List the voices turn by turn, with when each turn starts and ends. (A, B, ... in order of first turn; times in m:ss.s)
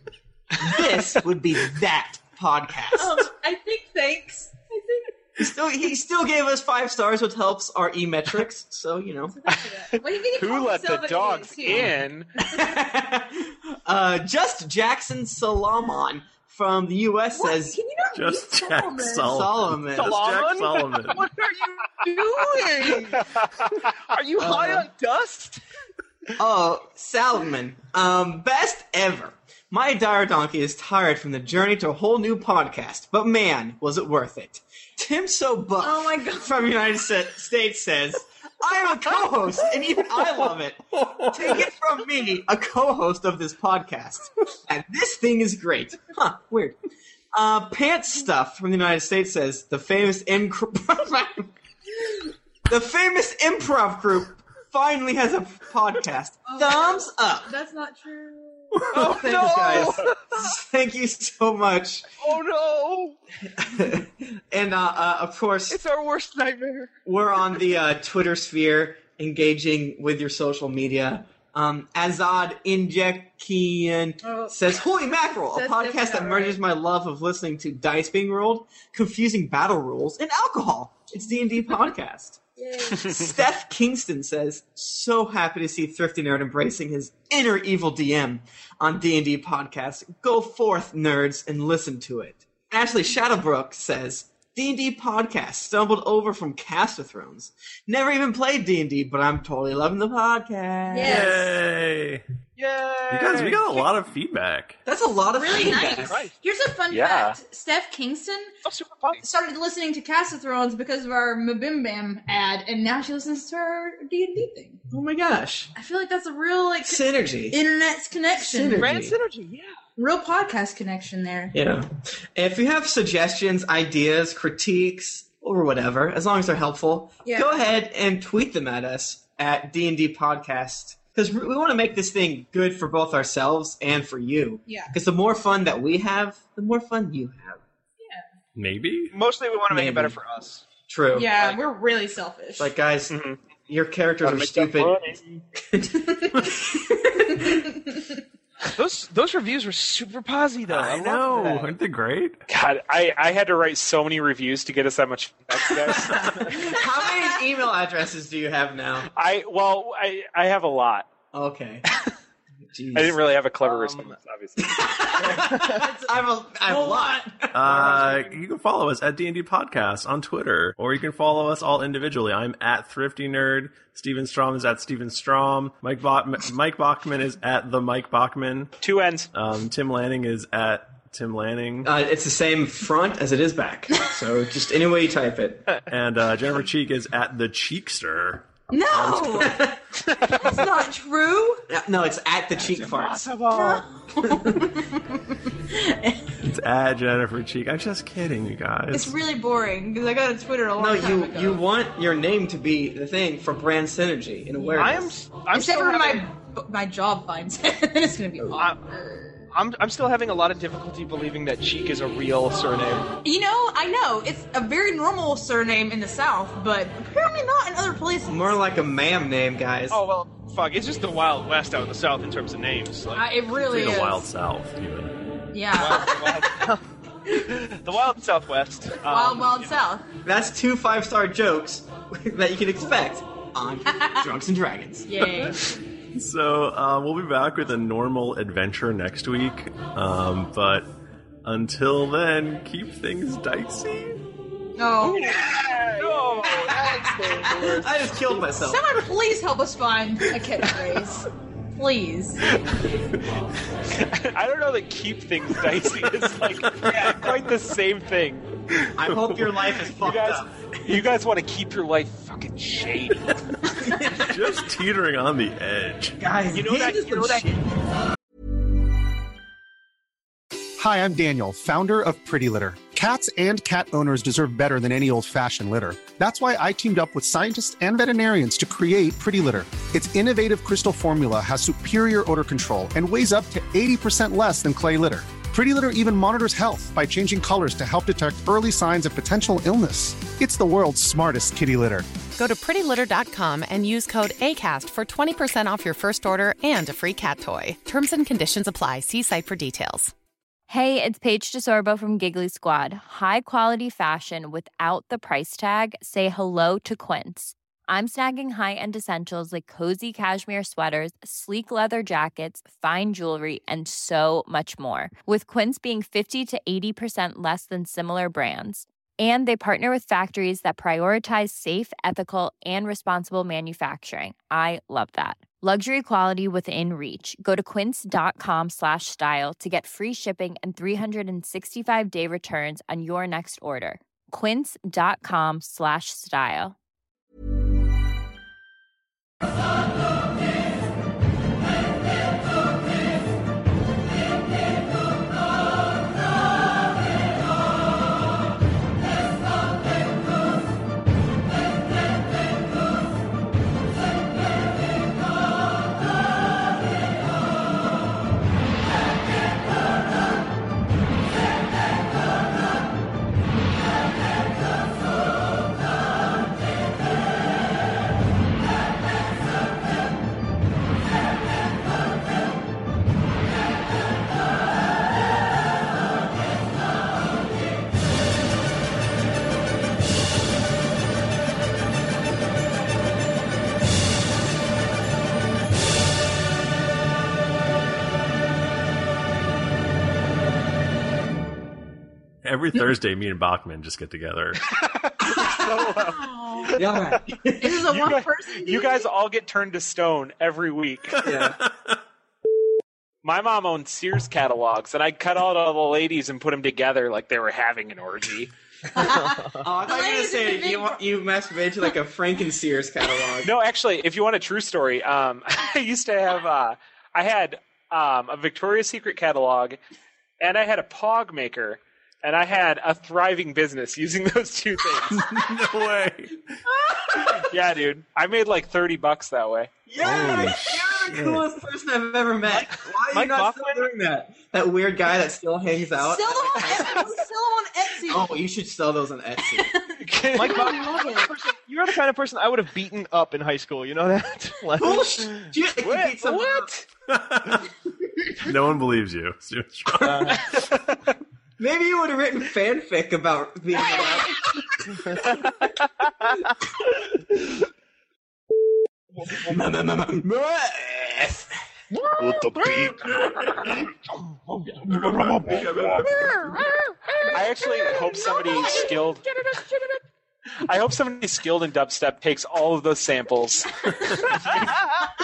0:00.5-0:03.2 A
0:02.9-0:05.1 B
0:05.4-0:09.4 A
0:09.4-0:11.8 B
0:10.3-0:12.3 C
0:12.5-0:17.8 A
0:17.4-0:19.4 B
0:18.1-0:21.2 D
0:19.2-0:20.2 A
0:19.9-0:25.6 E
0:22.6-0:22.8 B
0:24.4-0:24.9 A
0:26.4-0:46.8 A
0:35.8-0:36.6 B
0:47.3-0:51.5 A
0:52.7-0:57.5 A
0:56.4-0:58.8 B
0:58.8-1:02.0 A
0:58.9-1:00.2 E
1:02.2-1:03.2 E
1:03.5-1:05.8 A
1:05.7-1:06.9 E
1:07.0-1:22.4 A
1:14.2-1:16.6 B
1:22.6-1:23.1 B
1:22.9-1:41.4 A
1:40.9-1:41.4 B
1:41.0-1:42.2 D
1:42.6-1:43.9 E
1:43.1-1:44.8 D
1:44.8-1:46.2 A
1:45.3-1:48.5 B
1:45.8-1:46.3 E
1:46.9-1:47.4 C
1:48.6-1:49.2 E
1:49.2-1:54.8 B
1:54.9-1:55.7 A
1:55.7-1:58.9 B
1:56.8-1:57.6 A
1:58.4-1:59.2 A
1:58.7-1:59.8 E
2:00.0-2:01.5 B
2:01.5-2:17.6 A
2:07.2-2:07.6 B
2:14.7-2:14.9 B
2:18.6-2:19.1 D
2:19.1-2:20.6 E
2:19.7-2:20.2 A
2:20.9-2:21.3 A
2:21.1-2:22.7 B
2:22.6-2:25.0 A
2:23.1-2:23.4 C
2:24.2-2:25.4 C
2:25.6-2:27.7 A
2:28.7-2:31.7 E
2:30.7-2:32.4 D
2:32.5-2:36.7 C
2:36.4-2:39.1 A
2:39.1-2:41.1 C
2:41.3-2:41.8 A
2:42.7-2:43.2 A
2:42.9-2:44.8 C
2:43.6-2:44.2 E
2:44.6-2:47.6 A
2:45.2-2:45.8 E
2:47.5-2:58.7 D
2:47.6-2:48.4 E
2:58.8-2:59.3 C
2:59.3-3:01.9 D
3:01.8-3:05.7 A
3:05.9-3:09.7 D
3:08.7-3:09.6 B
3:09.4-3:09.8 A
3:10.2-3:11.6 B
3:11.7-3:13.2 A
3:12.6-3:13.8 E
3:13.5-3:16.2 B
3:16.4-3:19.2 D
3:18.9-3:21.6 B
3:20.8-3:25.2 A
3:24.7-3:26.3 E
3:25.5-3:29.4 B
3:28.5-3:28.8 E
3:29.5-3:33.1 E
3:33.2-3:38.6 B
3:38.3-3:40.0 A
3:39.9-3:43.2 E
3:43.1-3:44.3 B
3:43.6-3:45.2 D
3:45.5-3:46.4 B
3:45.7-3:49.7 E
3:49.0-3:50.0 B
3:50.2-3:55.1 A
3:54.0-3:54.2 B
3:55.0-3:55.6 B
3:56.1-4:00.9 D
4:01.4-4:04.2 D
4:04.8-4:05.4 B
4:05.1-4:06.7 C
4:06.0-4:07.9 E
4:07.4-4:08.8 A
4:08.5-4:12.4 B
4:13.8-4:18.5 C
4:19.0-4:20.5 A
4:20.0-4:23.4 C
4:24.1-4:26.2 D
4:26.2-4:27.6 A
4:26.5-4:27.5 E
4:30.8-4:52.1 F
4:52.3-5:00.1 G
5:00.7-5:36.7 H
6:32.4-6:34.6 D
6:35.3-6:36.8 C
6:36.2-6:36.8 B
6:36.8-6:37.9 A
6:37.6-6:39.1 B
6:37.9-6:41.2 C
6:41.2-6:41.6 A
6:41.2-6:41.7 D
6:43.2-6:48.5 C
6:48.9-6:51.0 B
6:49.6-6:53.5 A
6:53.4-6:59.8 C
7:00.4-7:05.3 C
7:05.1-7:06.4 D
7:07.4-7:09.7 C
7:09.9-7:17.1 A
7:10.0-7:11.4 D
7:12.5-7:13.9 E
7:16.0-7:18.3 B
7:18.1-7:19.7 A
7:19.6-7:21.3 B
7:20.0-7:20.9 C
7:20.3-7:25.5 E
7:24.8-7:26.7 A
7:25.8-7:26.8 C
7:27.1-7:27.7 D
7:28.4-7:30.5 D
7:30.0-7:30.4 E
7:31.6-7:34.6 A
7:35.0-7:35.2 E
7:39.2-7:39.5 E
7:39.4-7:41.5 A
7:42.2-7:43.9 D
7:44.8-7:46.5 D
7:47.3-7:49.2 C
7:48.0-7:48.8 B
7:50.6-7:54.7 C